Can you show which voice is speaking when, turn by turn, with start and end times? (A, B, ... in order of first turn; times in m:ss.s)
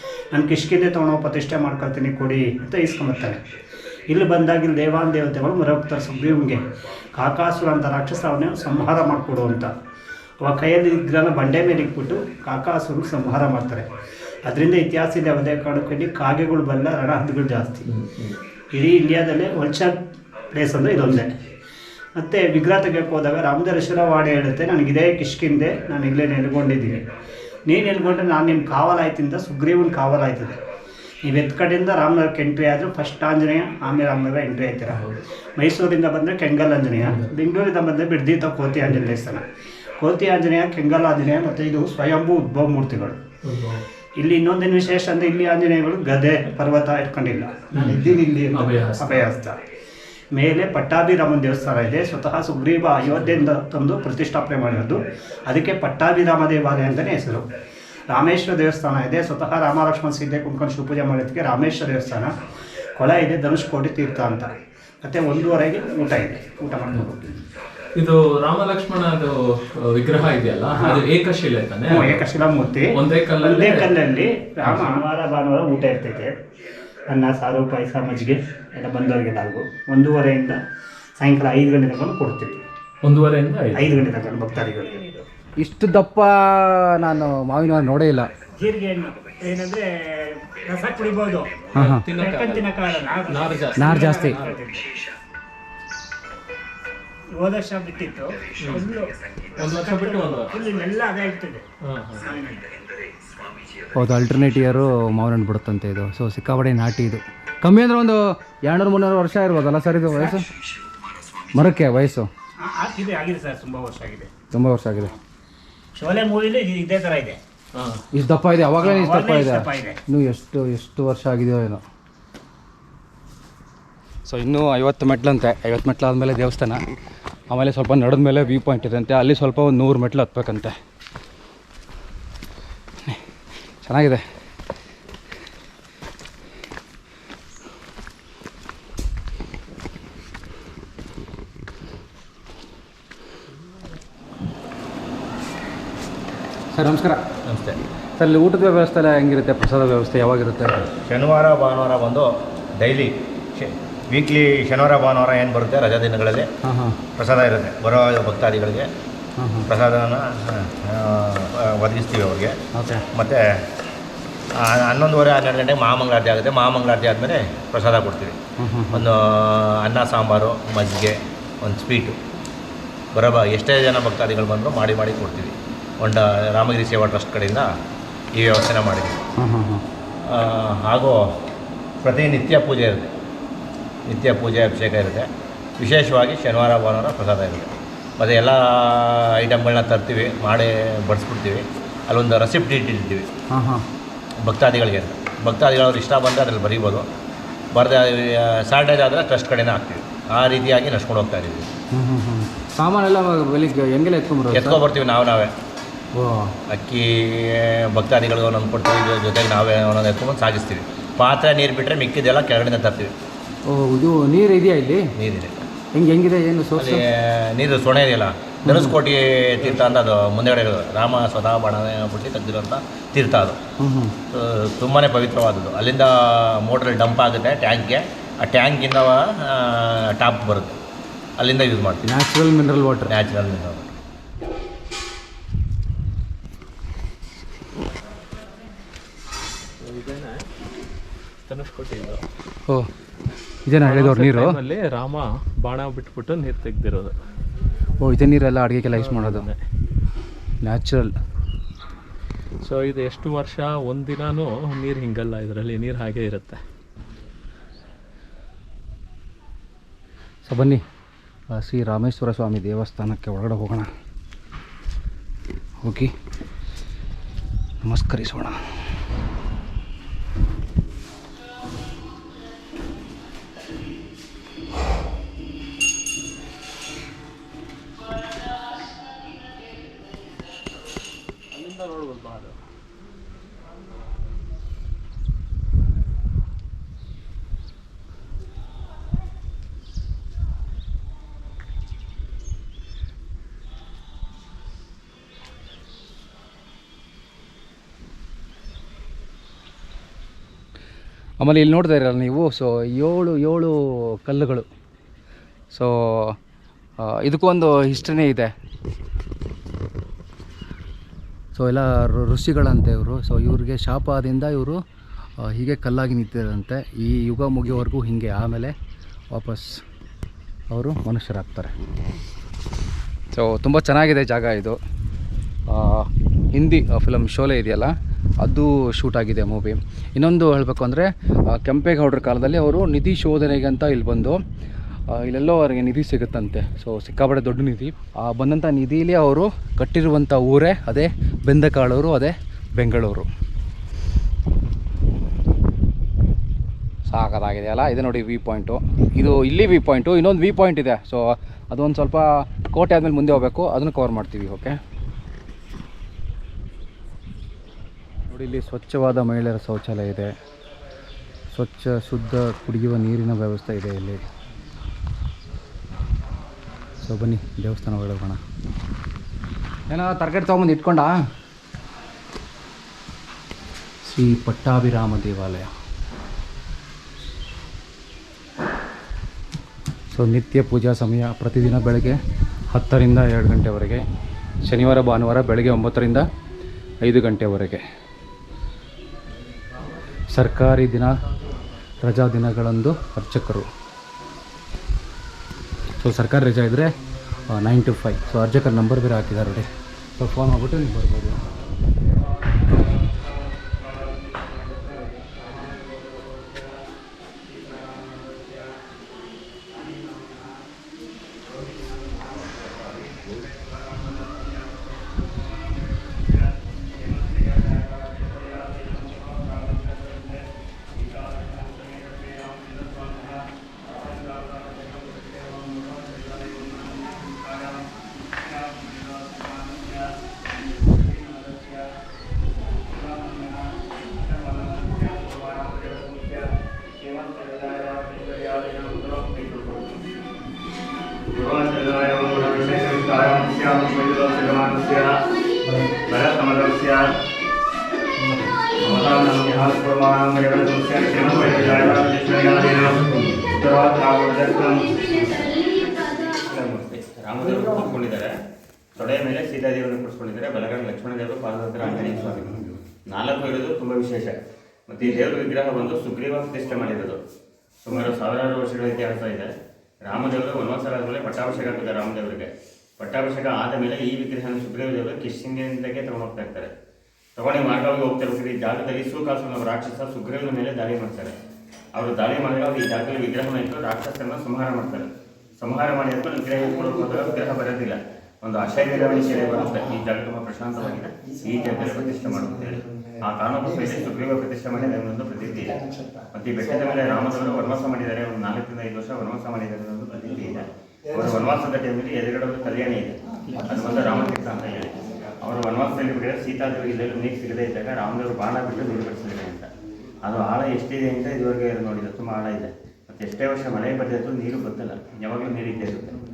0:00.3-0:03.4 A
0:04.1-0:09.7 A
0:10.4-0:13.9 A
0:14.4-0:17.8 A
0:17.8-0:18.4 B
0:18.7-0:20.0 A
0:20.5-0:21.3 A
0:22.2-0:27.1 A
0:27.7-0:30.6 A
0:31.2-0:39.4 A
0:34.9-0:35.2 B
0:37.0-0:37.3 B
0:40.0-0:43.2 A
0:43.4-0:43.8 B
0:44.2-0:49.6 A
0:47.7-0:49.3 B
0:50.3-0:57.5 A
0:58.1-1:02.3 A
1:03.0-1:07.4 A
1:08.0-1:12.2 B
1:10.8-1:11.0 A
1:11.9-1:16.3 A
1:12.9-1:13.9 B
1:14.6-1:15.0 B
1:17.1-1:20.6 A
1:21.2-1:22.6 A
1:23.0-1:23.9 B
1:23.8-1:25.3 A
1:25.6-1:28.3 C
1:28.6-1:34.9 A
1:31.7-1:34.7 B
1:31.8-1:32.0 C
1:33.8-1:34.4 C
1:37.3-1:41.7 A
1:38.6-1:38.9 B
1:39.6-1:40.5 B
1:41.8-1:42.3 B
1:42.2-1:42.6 A
1:43.9-1:50.4 C
1:51.5-1:52.3 C
1:52.6-1:54.3 A
1:54.5-1:55.1 C
1:56.0-1:57.4 A
1:57.7-1:58.0 B
1:58.1-2:01.8 C
1:58.8-2:00.0 A
2:04.3-2:06.8 C
2:07.5-2:10.8 C
2:13.8-2:14.2 C
2:26.7-2:27.2 C
2:28.2-2:30.9 C
2:31.0-2:36.5 D
2:36.6-2:37.0 C
2:37.2-2:38.9 D
2:39.4-2:39.7 C
2:39.7-2:42.6 D
2:42.7-2:43.0 C
2:43.1-2:43.6 D
2:44.6-2:48.4 D
2:48.6-2:49.0 C
2:48.9-2:52.2 D
2:53.2-2:57.7 D
2:58.4-2:59.2 D
2:59.4-2:59.8 C
3:00.3-3:01.3 D
3:02.0-3:03.1 D
3:04.1-3:05.3 D
3:05.8-3:13.3 D
3:13.5-3:13.8 C
3:14.4-3:17.1 D
3:17.7-3:21.7 D
3:21.9-3:24.8 C
3:24.5-3:25.5 D
3:26.1-3:26.6 C
3:26.7-3:33.1 D
3:33.7-3:35.1 C
3:35.2-3:35.6 D
3:35.9-3:37.0 C
3:36.8-3:43.6 D
3:38.6-3:38.9 C
3:43.8-3:44.2 C
3:44.3-3:50.8 D
3:51.4-3:52.0 D
3:52.0-3:53.1 C
3:53.1-3:53.9 D
3:59.8-4:00.4 B
4:01.5-4:02.2 B
4:03.7-4:04.6 C
4:03.8-4:07.2 B
4:08.0-4:09.4 C
4:08.9-4:09.6 B
4:10.6-4:11.1 C
4:12.6-4:16.6 B
4:20.5-4:20.8 C
4:21.5-4:23.9 C
4:25.8-4:26.1 C
4:27.8-4:28.6 C
4:41.5-4:42.6 B
5:01.4-5:04.7 C
5:05.7-5:06.4 C
5:07.0-5:08.5 C
5:11.6-5:14.8 C
5:15.4-5:18.8 C
5:19.3-5:19.8 C
5:20.7-5:21.7 C
5:23.3-5:24.8 C
5:25.7-5:34.4 C
5:35.1-5:43.3 C
5:47.1-5:54.8 C
5:58.3-6:00.3 C
6:01.5-6:04.2 C
6:07.0-6:08.4 C
6:09.9-6:11.2 C
6:14.0-6:15.7 C
6:20.1-6:22.2 C
6:22.7-6:24.1 C
6:24.7-6:26.3 C
6:27.0-6:27.8 C
6:30.3-6:31.2 C
6:32.0-6:33.7 C
6:36.0-6:36.9 C
6:37.5-6:41.4 C
7:15.3-7:15.6 A
7:21.3-7:25.0 E
7:26.1-7:26.9 E
7:28.8-7:33.0 E
7:33.6-7:38.3 E
7:39.0-7:44.4 E
7:44.9-7:47.2 E
7:47.8-7:49.5 E
7:50.0-7:56.7 E
7:57.4-8:01.4 E
8:01.9-8:05.1 E
8:05.6-8:29.7 E
8:30.2-8:36.2 E